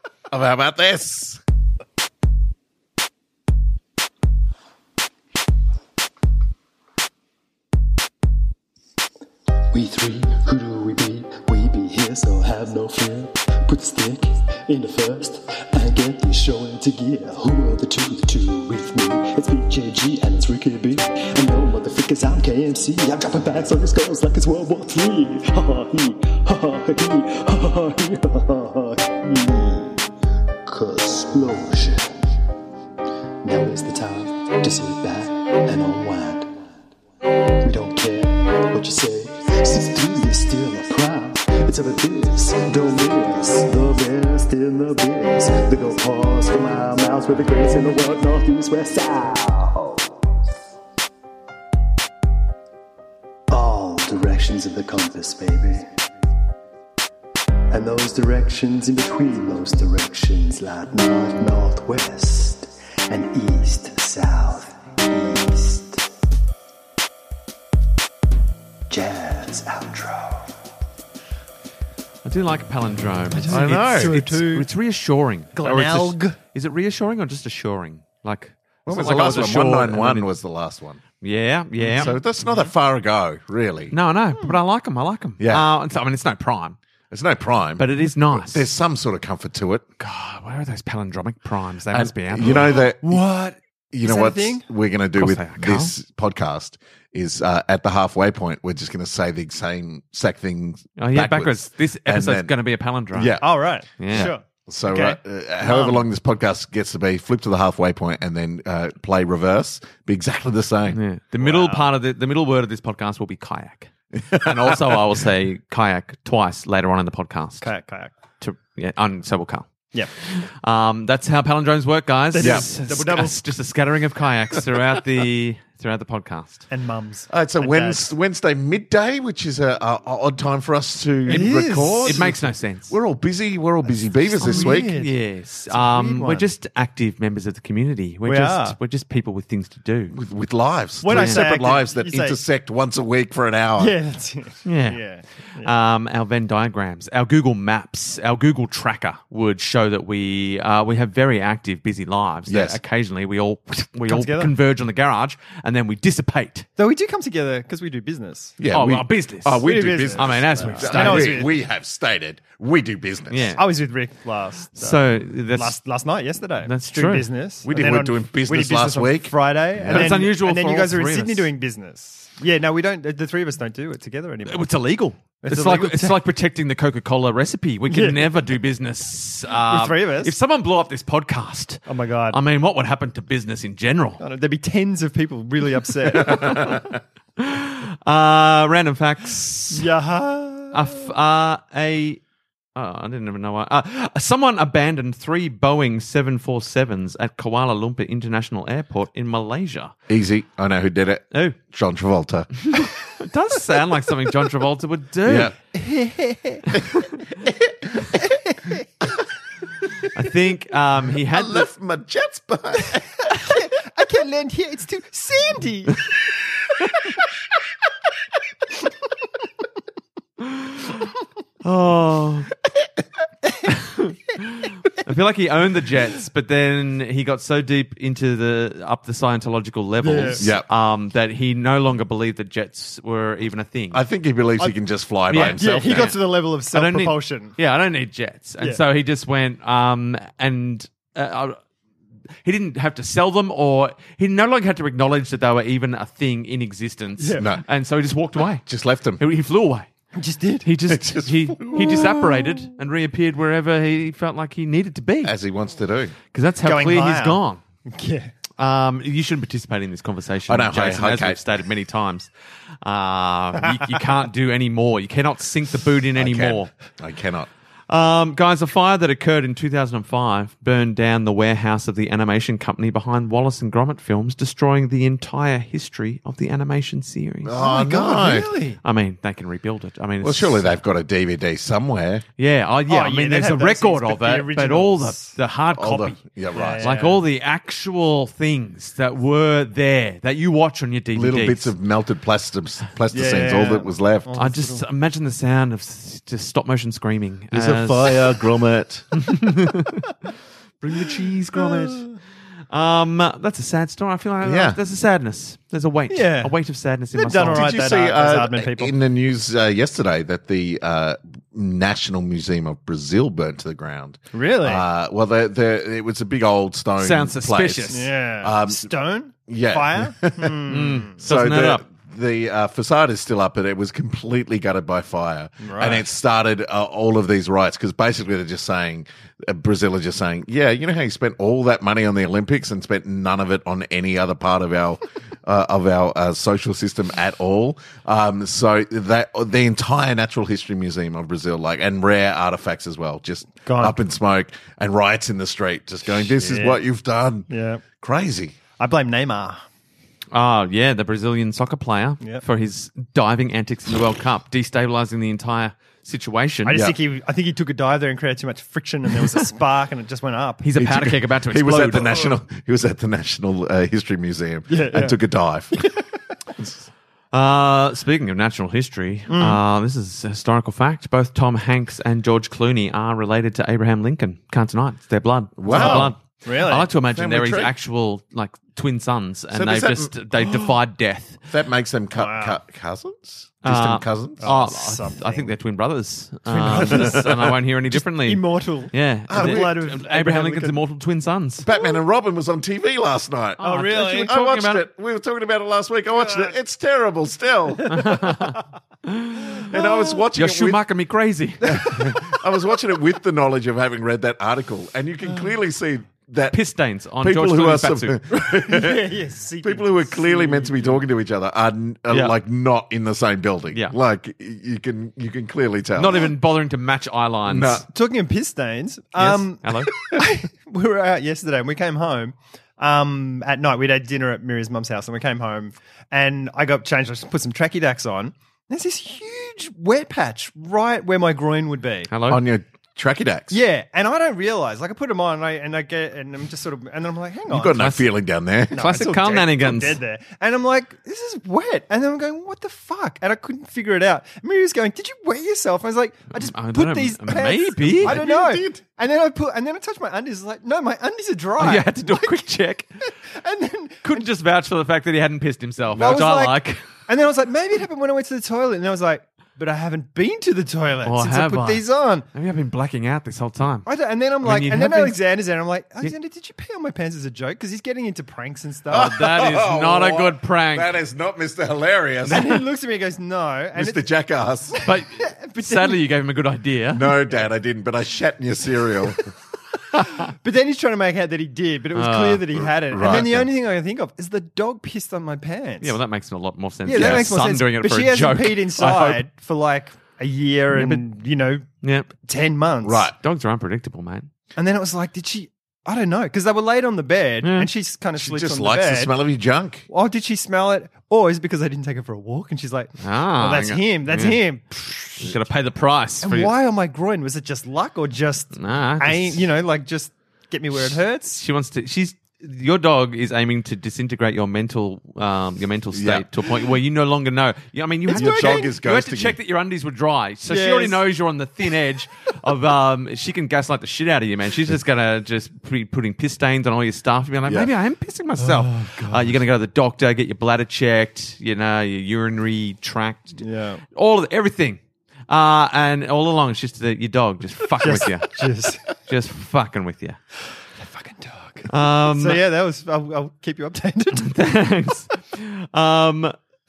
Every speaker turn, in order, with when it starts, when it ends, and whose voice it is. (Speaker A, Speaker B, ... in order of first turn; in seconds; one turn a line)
Speaker A: 0.3-1.4
Speaker B: 9.7-30.0
Speaker B: 30.6-32.1
Speaker B: 33.4-36.5
Speaker B: 37.6-50.1
Speaker B: 53.5-55.9
Speaker B: 57.7-66.0
Speaker B: 68.9-70.5
Speaker C: 72.2-80.3
Speaker D: 73.3-74.7
Speaker A: 73.5-74.2
Speaker D: 75.5-76.4
Speaker A: 78.8-81.0
Speaker C: 81.2-82.2
Speaker D: 81.8-82.2
Speaker A: 81.9-83.9
Speaker C: 83.9-86.8
Speaker A: 85.4-85.7
Speaker A: 87.1-89.8
Speaker C: 87.8-88.6
Speaker C: 90.0-92.8
Speaker A: 91.9-93.2
Speaker D: 92.4-94.6
Speaker A: 93.9-102.5
Speaker C: 95.2-95.9
Speaker C: 101.0-103.4
Speaker A: 103.1-103.5
Speaker D: 103.4-106.0
Speaker C: 104.0-104.3
Speaker A: 104.1-111.0
Speaker C: 110.9-117.7
Speaker D: 111.4-111.9
Speaker A: 114.2-115.0
Speaker D: 117.6-118.1
Speaker C: 118.4-126.6
Speaker D: 122.3-123.4
Speaker A: 122.4-122.7
Speaker D: 126.7-128.1
Speaker A: 127.3-134.9
Speaker D: 131.2-132.3
Speaker C: 131.3-132.9
Speaker D: 133.8-135.1
Speaker C: 134.4-140.1
Speaker D: 135.7-136.4
Speaker D: 138.2-138.8
Speaker A: 140.1-143.9
Speaker D: 141.0-142.4
Speaker C: 141.0-141.4
Speaker D: 143.8-145.7
Speaker C: 144.6-145.0
Speaker C: 145.6-156.7
Speaker A: 152.5-152.8
Speaker D: 154.1-154.5
Speaker D: 156.8-158.6
Speaker A: 158.6-163.6
Speaker C: 158.7-161.4
Speaker D: 159.6-161.5
Speaker C: 163.3-163.6
Speaker D: 163.5-174.7
Speaker C: 164.8-165.8
Speaker C: 166.6-167.3
Speaker A: 167.6-170.2
Speaker C: 169.9-171.5
Speaker C: 174.4-184.2
Speaker D: 175.4-176.2
Speaker D: 177.9-178.4
Speaker D: 179.6-180.3
Speaker D: 181.9-182.4
Speaker D: 184.2-186.9
Speaker C: 186.1-186.8
Speaker A: 186.4-186.7
Speaker C: 187.4-189.9
Speaker D: 189.7-190.9
Speaker C: 190.7-192.2
Speaker C: 192.7-199.9
Speaker A: 200.1-202.8
Speaker C: 201.3-201.6
Speaker C: 202.7-205.5
Speaker A: 205.2-205.6
Speaker D: 205.7-206.7
Speaker D: 208.1-208.8
Speaker C: 210.1-211.7
Speaker A: 211.3-213.2
Speaker D: 213.4-216.0
Speaker C: 221.6-222.5
Speaker C: 223.7-234.0
Speaker D: 230.0-230.4
Speaker A: 230.4-230.7
Speaker A: 233.9-236.2
Speaker C: 235.3-236.2
Speaker D: 235.3-237.5
Speaker C: 236.7-241.6
Speaker C: 242.4-248.6
Speaker D: 247.2-247.4
Speaker A: 247.4-247.6
Speaker A: 248.7-249.2
Speaker C: 249.2-249.9
Speaker D: 250.1-250.7
Speaker C: 250.6-255.3
Speaker A: 250.9-252.3
Speaker D: 251.8-252.5
Speaker A: 255.2-256.1
Speaker C: 256.3-257.6
Speaker D: 256.6-258.3
Speaker C: 258.6-262.3
Speaker A: 260.5-261.4
Speaker C: 262.8-266.7
Speaker A: 266.2-267.5
Speaker C: 267.9-277.5
Speaker A: 277.4-278.5
Speaker D: 277.6-278.8
Speaker C: 278.8-280.7
Speaker A: 280.2-282.2
Speaker C: 282.4-286.2
Speaker D: 282.9-285.3
Speaker A: 285.8-286.9
Speaker D: 286.5-287.2
Speaker C: 286.8-291.7
Speaker A: 291.1-294.3
Speaker D: 293.1-294.8
Speaker C: 294.4-298.4
Speaker A: 297.5-299.2
Speaker C: 299.1-300.0
Speaker C: 300.8-302.1
Speaker D: 301.7-302.1
Speaker C: 302.7-307.7
Speaker A: 304.4-304.8
Speaker D: 306.1-306.5
Speaker D: 307.1-308.9
Speaker A: 307.5-318.9
Speaker D: 314.3-314.8
Speaker C: 317.0-318.1
Speaker D: 317.9-321.1
Speaker A: 319.5-347.5
Speaker C: 320.7-321.8
Speaker D: 325.6-326.0
Speaker D: 343.6-344.0
Speaker D: 346.2-346.8
Speaker D: 347.5-347.8
Speaker A: 348.0-348.5
Speaker D: 348.8-349.6
Speaker C: 350.3-356.8
Speaker D: 356.6-360.6
Speaker C: 360.6-362.3
Speaker A: 360.8-365.8
Speaker D: 364.7-365.2
Speaker A: 366.6-366.8
Speaker C: 367.3-381.4
Speaker D: 369.3-369.6
Speaker A: 375.6-376.1
Speaker D: 375.7-376.9
Speaker A: 377.1-377.7
Speaker A: 379.5-380.6
Speaker A: 381.5-384.4
Speaker D: 382.1-382.6
Speaker C: 383.6-391.6
Speaker D: 384.4-385.5
Speaker D: 386.5-390.8
Speaker A: 389.3-389.7
Speaker A: 391.6-398.0
Speaker C: 393.6-394.9
Speaker D: 393.6-394.4
Speaker D: 396.1-396.5
Speaker D: 397.8-398.1
Speaker C: 397.9-399.7
Speaker D: 399.7-400.2
Speaker A: 399.7-400.8
Speaker C: 400.3-402.1
Speaker A: 401.6-406.6
Speaker C: 406.5-408.2
Speaker A: 407.2-409.1
Speaker D: 408.5-411.0
Speaker A: 409.6-416.3
Speaker C: 412.1-412.3
Speaker C: 415.9-417.8
Speaker A: 417.5-417.9
Speaker D: 417.9-432.1
Speaker C: 419.2-419.9
Speaker C: 432.1-432.4
Speaker A: 432.3-433.6
Speaker D: 433.5-437.9
Speaker A: 437.5-438.8
Speaker C: 437.8-438.0
Speaker D: 438.7-452.5
Speaker C: 438.7-440.0
Speaker C: 446.4-448.2
Speaker A: 448.0-448.8
Speaker C: 451.6-452.9
Speaker D: 453.3-454.3
Speaker C: 454.0-456.8
Speaker D: 455.9-462.3
Speaker A: 455.9-456.2
Speaker C: 461.0-463.9
Speaker D: 463.9-469.2
Speaker C: 464.4-465.1
Speaker A: 468.9-472.6
Speaker C: 468.9-470.9
Speaker D: 472.3-474.0
Speaker C: 472.3-472.6
Speaker A: 473.8-474.8
Speaker D: 474.8-476.0
Speaker C: 474.8-477.1
Speaker A: 476.9-479.3
Speaker C: 479.9-480.2
Speaker D: 480.3-485.9
Speaker C: 481.9-482.6
Speaker A: 482.9-483.5
Speaker C: 485.8-489.2
Speaker D: 486.8-491.6
Speaker A: 486.9-487.2
Speaker C: 490.7-491.0
Speaker C: 491.8-492.1
Speaker D: 492.2-493.1
Speaker A: 492.8-493.1
Speaker C: 493.2-494.3
Speaker D: 494.6-499.1
Speaker C: 497.4-497.7
Speaker A: 498.2-499.8
Speaker D: 499.9-505.3
Speaker C: 503.0-504.4
Speaker C: 505.2-506.5
Speaker D: 506.2-511.4
Speaker C: 508.5-509.4
Speaker C: 510.9-538.4
Speaker A: 515.9-516.3
Speaker D: 518.1-518.7
Speaker A: 518.1-519.4
Speaker D: 520.5-521.0
Speaker D: 528.4-529.4
Speaker D: 533.4-533.8
Speaker D: 537.7-538.9
Speaker C: 539.0-540.2
Speaker D: 540.8-544.5
Speaker C: 541.7-542.4
Speaker C: 544.1-546.4